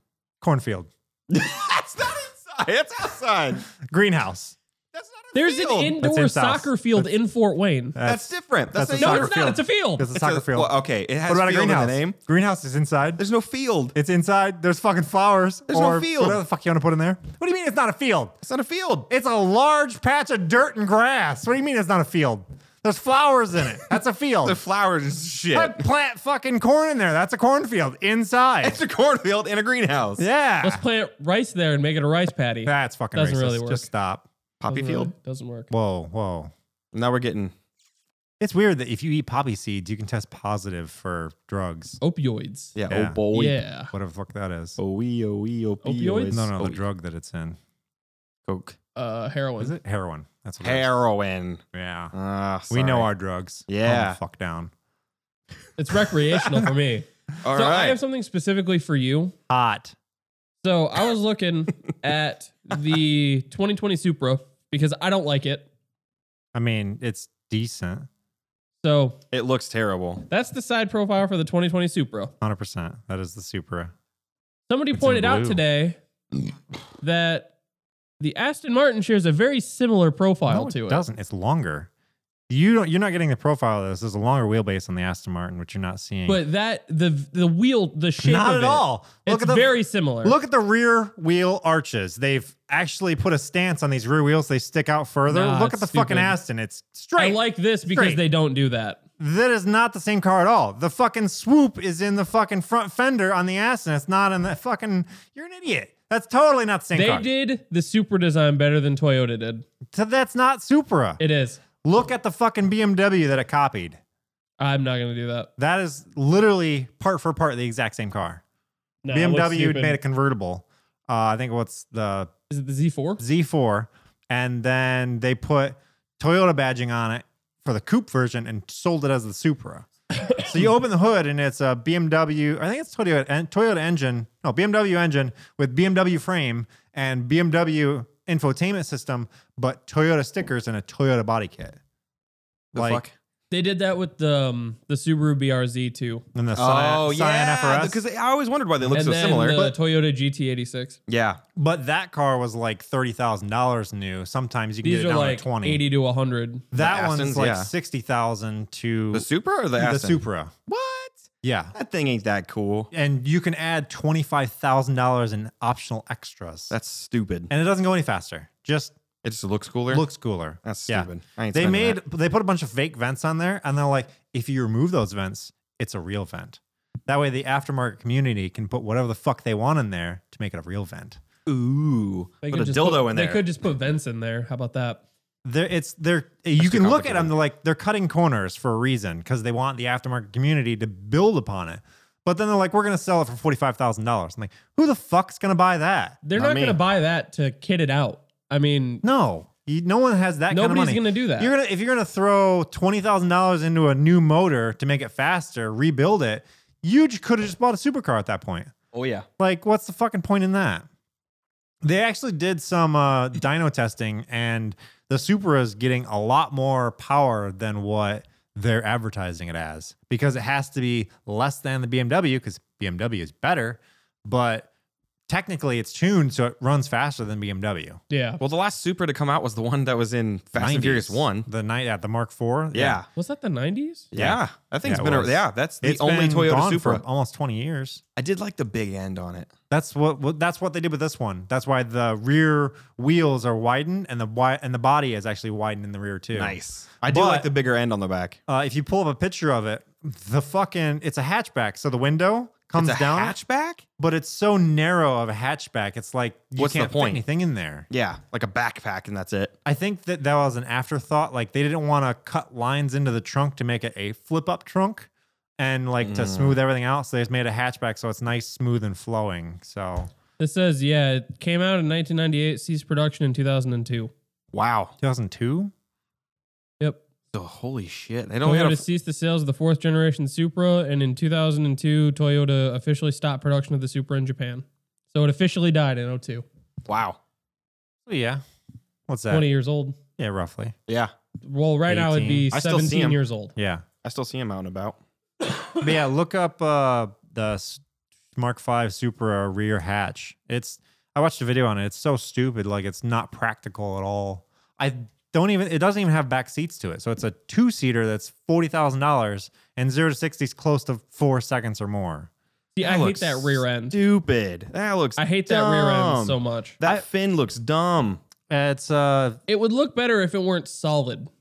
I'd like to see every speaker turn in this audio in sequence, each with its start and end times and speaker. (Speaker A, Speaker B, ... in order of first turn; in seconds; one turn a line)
Speaker A: 0.4-0.9
Speaker B: 1.3-3.7
Speaker A: 3.8-4.5
Speaker B: 4.9-6.0
Speaker C: 5.3-8.0
Speaker A: 6.0-7.1
Speaker A: 8.0-10.7
Speaker B: 8.0-9.5
Speaker C: 9.0-10.1
Speaker B: 10.1-12.2
Speaker A: 11.2-13.2
Speaker B: 13.2-13.9
Speaker A: 13.9-18.4
Speaker B: 15.7-16.4
Speaker B: 18.4-19.1
Speaker A: 19.1-24.6
Speaker B: 24.4-25.8
Speaker A: 25.5-28.8
Speaker B: 28.6-30.2
Speaker A: 30.2-30.8
Speaker C: 30.6-33.9
Speaker A: 32.6-34.3
Speaker B: 34.6-35.1
Speaker C: 34.7-35.7
Speaker A: 35.7-36.5
Speaker B: 36.9-37.5
Speaker A: 38.4-42.0
Speaker C: 42.0-42.7
Speaker B: 42.8-43.6
Speaker A: 42.9-43.2
Speaker C: 43.3-43.9
Speaker A: 43.9-44.8
Speaker B: 44.8-46.8
Speaker C: 45.8-46.4
Speaker A: 46.3-47.6
Speaker B: 48.5-48.8
Speaker C: 49.0-49.8
Speaker A: 49.6-50.9
Speaker B: 50.6-51.6
Speaker A: 51.7-52.1
Speaker B: 52.1-53.1
Speaker A: 52.7-54.7
Speaker B: 53.7-54.2
Speaker C: 55.8-59.3
Speaker B: 56.3-56.6
Speaker B: 57.4-58.0
Speaker A: 59.5-60.0
Speaker C: 60.6-65.7
Speaker A: 66.5-68.1
Speaker C: 68.8-69.2
Speaker B: 69.3-70.2
Speaker C: 70.3-72.3
Speaker A: 72.4-73.9
Speaker C: 74.7-76.0
Speaker A: 74.9-75.6
Speaker C: 77.0-77.5
Speaker C: 78.2-81.0
Speaker A: 80.5-81.9
Speaker A: 82.5-86.4
Speaker C: 86.3-90.3
Speaker A: 88.2-98.2
Speaker C: 95.3-96.3
Speaker C: 97.2-99.0
Speaker A: 99.2-107.2
Speaker C: 106.9-109.7
Speaker A: 109.9-111.2
Speaker C: 111.2-111.6
Speaker A: 111.8-114.0
Speaker C: 114.6-115.5
Speaker A: 115.6-118.4
Speaker C: 119.0-120.0
Speaker A: 119.1-122.3
Speaker C: 122.5-123.2
Speaker A: 123.2-141.8
Speaker B: 142.7-143.1
Speaker A: 142.7-143.0
Speaker C: 143.5-146.2
Speaker A: 146.3-148.0
Speaker B: 146.6-149.7
Speaker C: 148.9-151.0
Speaker B: 151.1-151.4
Speaker A: 151.6-155.8
Speaker C: 154.8-156.7
Speaker A: 156.7-160.6
Speaker B: 156.8-157.7
Speaker B: 159.1-162.9
Speaker A: 161.4-161.7
Speaker A: 162.9-166.7
Speaker B: 166.7-167.5
Speaker A: 167.5-168.9
Speaker B: 169.2-170.0
Speaker A: 169.9-181.2
Speaker B: 170.6-172.0
Speaker B: 181.4-183.4
Speaker C: 182.4-185.0
Speaker A: 185.4-196.2
Speaker B: 186.6-187.3
Speaker C: 196.2-199.0
Speaker B: 196.3-196.8
Speaker A: 199.0-208.7
Speaker C: 200.5-201.5
Speaker B: 208.9-209.3
Speaker A: 209.4-210.8
Speaker A: 211.8-224.7
Speaker A: 225.3-228.0
Speaker C: 228.1-228.4
Speaker B: 228.4-231.5
Speaker A: 230.6-233.0
Speaker B: 232.7-233.1
Speaker C: 233.1-234.1
Speaker B: 234.1-237.0
Speaker A: 234.1-238.0
Speaker B: 238.2-239.5
Speaker A: 239.7-247.5
Speaker B: 246.3-248.4
Speaker A: 248.5-253.4
Speaker B: 252.8-253.8
Speaker A: 254.0-257.9
Speaker B: 256.6-257.2
Speaker B: 257.9-259.5
Speaker A: 259.6-270.1
Speaker B: 266.0-266.6
Speaker C: 270.4-274.1
Speaker B: 274.5-274.9
Speaker A: 275.0-275.7
Speaker B: 277.3-278.8
Speaker C: 278.4-286.4
Speaker B: 286.9-287.2
Speaker A: 288.1-288.4
Speaker A: 289.1-289.5
Speaker C: 289.3-290.0
Speaker A: 290.2-290.7
Speaker C: 291.4-293.5
Speaker A: 291.9-292.5
Speaker B: 292.5-293.2
Speaker A: 293.6-293.8
Speaker B: 294.0-295.0
Speaker A: 295.8-297.8
Speaker A: 298.3-312.3
Speaker C: 312.8-313.9
Speaker B: 312.8-318.2
Speaker C: 315.2-316.8
Speaker A: 318.5-319.4
Speaker C: 319.5-321.3